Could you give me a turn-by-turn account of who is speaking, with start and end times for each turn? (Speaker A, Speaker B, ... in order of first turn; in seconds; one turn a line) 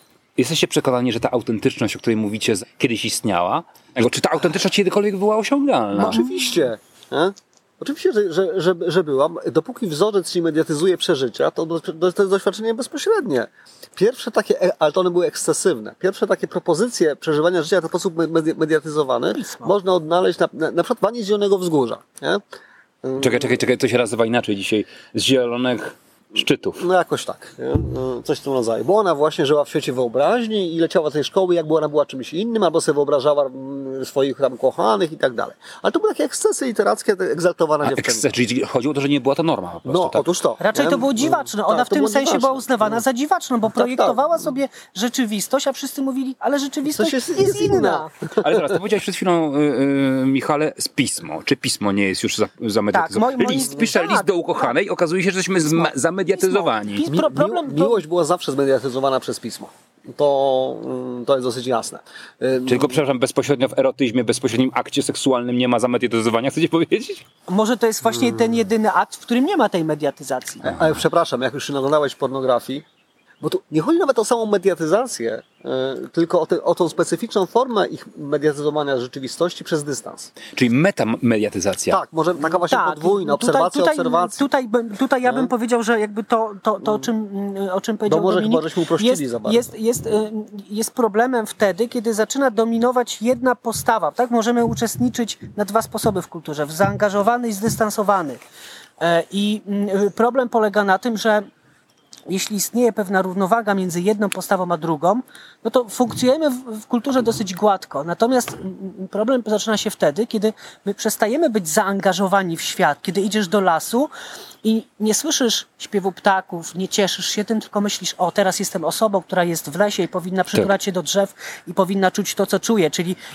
Speaker A: 0.4-6.2
Speaker B: 5.9-22.4
Speaker C: 6.1-6.5
Speaker C: 19.3-19.7
Speaker B: 23.0-23.6
Speaker A: 23.2-26.8
Speaker B: 26.8-38.3
Speaker A: 37.8-40.2
Speaker B: 39.8-43.0
Speaker C: 40.6-48.1
Speaker B: 43.7-44.3
Speaker B: 46.9-48.6
Speaker A: 48.4-57.1
Speaker C: 52.9-54.7
Speaker C: 55.6-58.0
Speaker B: 57.0-63.0
Speaker A: 62.6-67.2
Speaker C: 67.5-70.6
Speaker B: 68.1-68.6
Speaker B: 70.6-72.8
Speaker A: 70.7-70.9
Speaker B: 73.4-80.3
Speaker A: 80.5-82.0
Speaker B: 81.9-84.5
Speaker C: 82.4-98.4
Speaker B: 85.2-85.5
Speaker B: 86.8-87.1
Speaker B: 88.0-89.7
Speaker C: 99.0-101.5
Speaker C: 102.3-114.1
Speaker C: 114.6-123.2